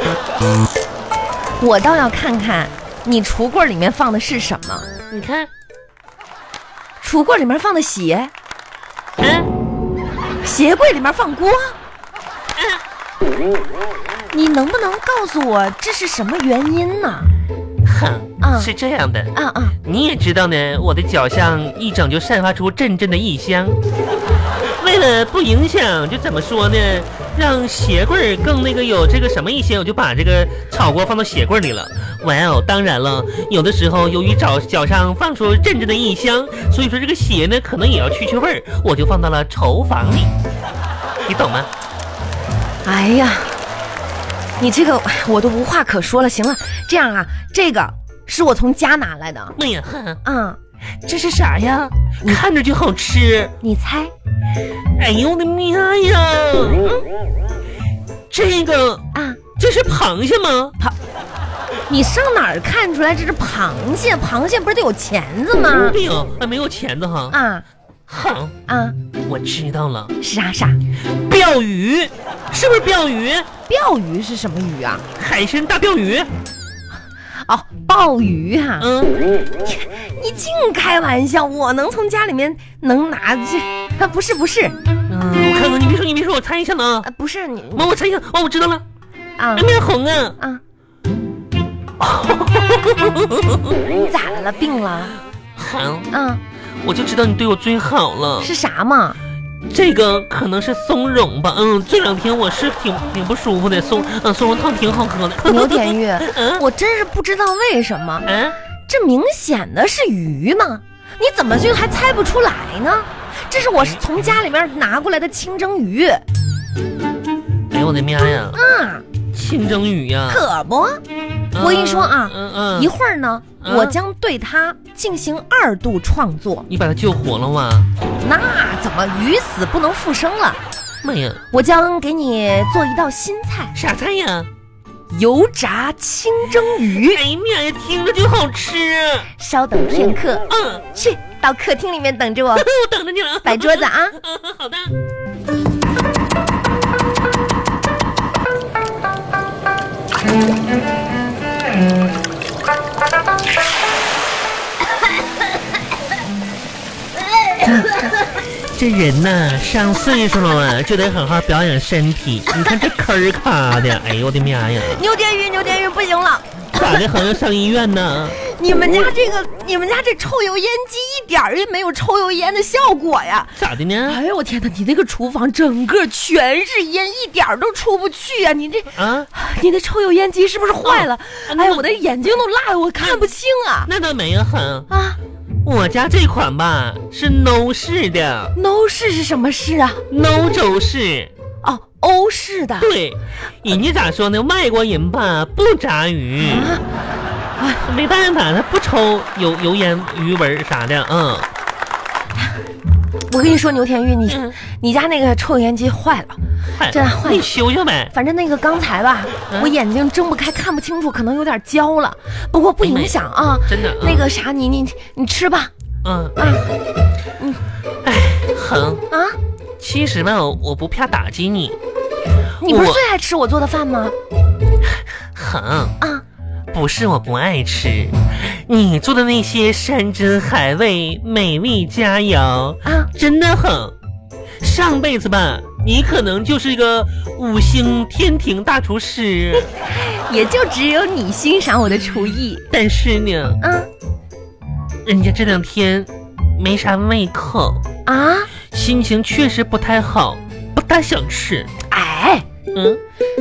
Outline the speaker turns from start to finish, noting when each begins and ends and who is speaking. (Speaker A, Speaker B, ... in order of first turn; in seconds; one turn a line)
Speaker A: 1.6-4.9
Speaker B: 5.1-5.5
Speaker A: 7.0-8.3
Speaker B: 9.2-9.5
Speaker A: 10.4-11.8
Speaker B: 12.6-12.8
Speaker A: 14.3-17.3
Speaker B: 17.9-23.8
Speaker A: 18.4-18.7
Speaker A: 19.4-19.8
Speaker B: 24.8-40.3
Speaker B: 41.3-41.7
Speaker A: 42.9-43.6
Speaker A: 44.6-49.6
Speaker B: 49.6-50.2
Speaker A: 50.2-50.6
Speaker B: 51.0-53.5
Speaker A: 53.6-54.1
Speaker B: 55.0-56.9
Speaker B: 58.3-59.1
Speaker A: 59.1-59.4
Speaker B: 59.6-60.8
Speaker A: 61.9-66.0
Speaker B: 65.8-67.4
Speaker A: 67.3-67.7
Speaker B: 68.1-68.5
Speaker A: 68.7-69.0
Speaker B: 69.3-70.1
Speaker A: 70.2-70.8
Speaker B: 71.2-73.5
Speaker A: 73.7-75.0
Speaker B: 75.2-76.3
Speaker A: 77.5-78.9
Speaker B: 78.8-79.2
Speaker A: 79.6-84.8
Speaker B: 85.1-87.1
Speaker A: 87.0-87.9
Speaker B: 87.8-88.8
Speaker A: 89.4-89.7
Speaker B: 89.5-90.4
Speaker B: 92.0-93.8
Speaker A: 93.9-95.2
Speaker B: 95.6-96.1
Speaker A: 96.1-96.4
Speaker B: 96.8-98.5
Speaker A: 98.4-99.2
Speaker B: 99.7-106.6
Speaker A: 105.4-108.3
Speaker B: 108.2-108.6
Speaker A: 108.9-116.2
Speaker B: 117.7-118.6
Speaker A: 118.5-119.1
Speaker B: 119.3-120.4
Speaker A: 120.3-121.0
Speaker B: 121.5-122.9
Speaker A: 121.5-126.7
Speaker B: 123.6-124.0
Speaker B: 126.7-127.9
Speaker A: 128.2-130.6
Speaker B: 131.0-131.4
Speaker A: 131.5-133.8
Speaker B: 133.8-134.5
Speaker A: 135.1-137.2
Speaker B: 136.9-139.3
Speaker A: 139.4-142.7
Speaker B: 140.5-140.8
Speaker B: 142.6-144.9
Speaker A: 143.4-144.2
Speaker A: 157.6-158.1
Speaker B: 158.3-165.0
Speaker A: 164.8-167.0
Speaker B: 166.7-168.4
Speaker A: 168.4-183.9
Speaker B: 173.6-174.2
Speaker B: 178.9-179.3
Speaker B: 180.8-181.9
Speaker B: 183.0-183.3
Speaker B: 183.9-184.9
Speaker A: 184.9-185.2
Speaker B: 185.6-188.5
Speaker A: 188.6-190.0
Speaker B: 190.1-191.3
Speaker A: 191.6-192.9
Speaker B: 192.8-196.8
Speaker A: 196.4-196.8
Speaker A: 197.6-197.8
Speaker B: 197.8-201.5
Speaker A: 203.3-207.5
Speaker B: 204.3-204.6
Speaker B: 206.8-208.1
Speaker A: 208.1-215.7
Speaker B: 209.5-209.8
Speaker B: 212.8-214.3
Speaker B: 216.0-216.6
Speaker A: 216.4-216.7
Speaker B: 218.0-219.0
Speaker A: 219.1-219.4
Speaker B: 219.8-221.8
Speaker A: 222.6-224.1
Speaker B: 222.7-223.0
Speaker B: 225.3-225.9
Speaker B: 226.7-234.0
Speaker A: 232.8-233.1
Speaker B: 234.6-239.7
Speaker A: 239.6-242.7
Speaker B: 242.7-243.6
Speaker A: 243.6-243.9
Speaker B: 245.1-247.8
Speaker A: 248.1-248.5
Speaker B: 248.7-251.7
Speaker A: 251.9-252.5
Speaker B: 252.7-253.0